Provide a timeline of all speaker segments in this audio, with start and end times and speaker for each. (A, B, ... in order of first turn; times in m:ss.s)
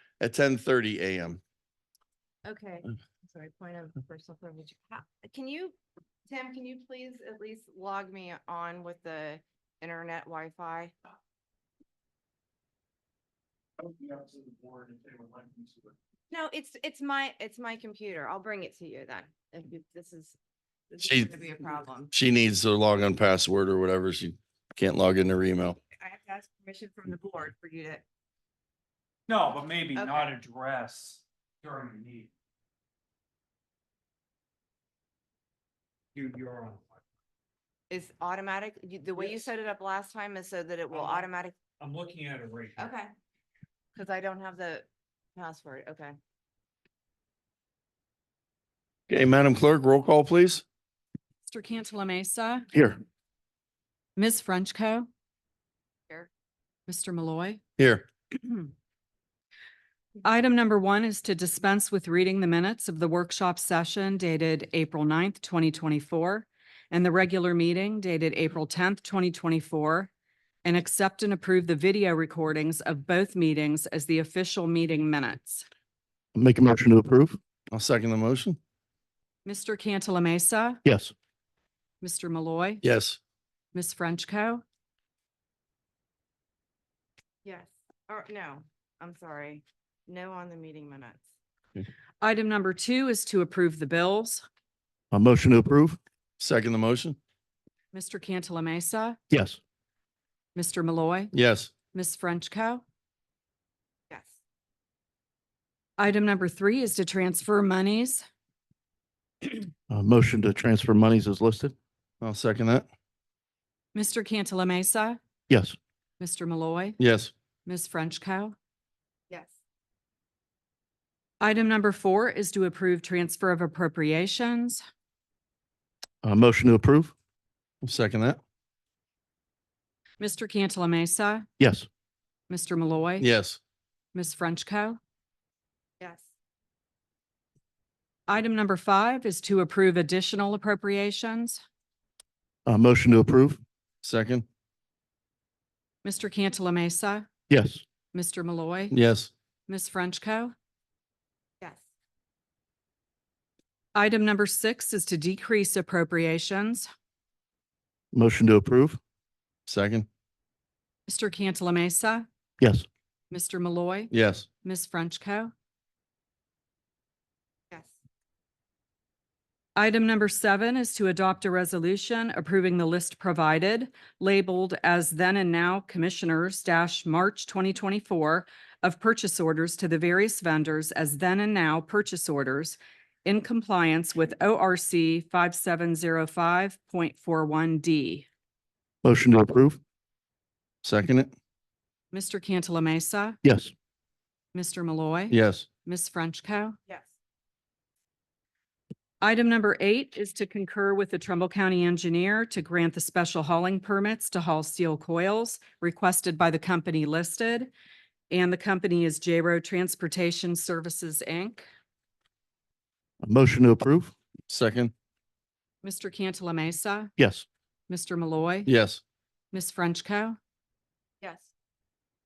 0:00.2-0:01.4 A
0:02.4-0:05.8 B
0:06.3-0:10.9 B
0:13.9-0:15.7 C
0:16.3-0:20.4 B
0:20.9-0:22.1 B
0:21.0-0:21.3 A
0:22.1-0:25.8 A
0:25.7-0:28.0 B
0:29.3-0:32.3 C
0:30.0-0:30.3 B
0:36.2-0:36.9 C
0:37.9-0:41.6 B
0:40.9-0:41.3 C
0:41.8-0:42.9 C
0:42.8-0:43.1 B
0:44.0-0:46.2 B
0:49.1-0:50.6 A
0:51.5-0:52.7 D
0:52.7-0:53.0 E
0:54.2-0:55.1 D
0:56.9-0:57.6 D
0:57.8-0:58.0 A
1:00.2-1:10.1 D
1:10.6-1:15.6 D
1:16.4-1:17.4 E
1:17.7-1:18.6 A
1:19.4-1:20.8 D
1:20.8-1:21.1 E
1:22.0-1:22.8 D
1:22.8-1:23.2 A
1:23.7-1:24.6 D
1:27.4-1:31.3 B
1:32.2-1:34.4 D
1:35.1-1:36.0 E
1:36.4-1:37.2 A
1:37.9-1:39.2 D
1:39.3-1:39.6 E
1:40.6-1:41.3 D
1:41.3-1:41.7 A
1:41.9-1:42.8 D
1:44.1-1:44.4 B
1:46.0-1:48.2 D
1:49.9-1:51.7 E
1:52.2-1:52.9 A
1:54.0-1:55.2 D
1:55.5-1:55.8 E
1:56.2-1:57.0 D
1:57.0-1:57.3 A
1:57.7-1:58.6 D
1:59.3-1:59.6 B
2:01.4-2:04.8 D
2:06.2-2:07.1 E
2:07.8-2:08.4 A
2:10.2-2:11.5 D
2:11.6-2:11.9 E
2:12.5-2:13.3 D
2:13.2-2:13.6 A
2:14.1-2:15.0 D
2:16.0-2:16.3 B
2:18.3-2:21.6 D
2:22.7-2:23.6 E
2:24.0-2:24.4 A
2:26.0-2:27.3 D
2:27.5-2:27.8 E
2:28.1-2:28.9 D
2:28.9-2:29.3 A
2:29.7-2:30.5 D
2:34.0-2:36.9 D
2:38.1-2:39.0 E
2:39.7-2:40.1 A
2:41.1-2:42.3 D
2:42.6-2:42.8 E
2:43.3-2:44.1 D
2:44.1-2:44.5 A
2:44.6-2:45.5 D
2:49.8-3:08.3 D
3:09.0-3:09.8 E
3:10.8-3:11.3 A
3:12.1-3:13.4 D
3:13.4-3:13.7 E
3:14.5-3:16.8 D
3:15.3-3:15.7 A
3:19.2-3:27.7 D
3:28.3-3:31.6 D
3:33.2-3:34.1 E
3:34.5-3:34.9 A
3:35.8-3:37.1 D
3:37.2-3:37.5 E
3:37.9-3:38.7 D
3:38.7-3:39.0 A
3:39.5-3:40.4 D
3:41.2-3:41.5 B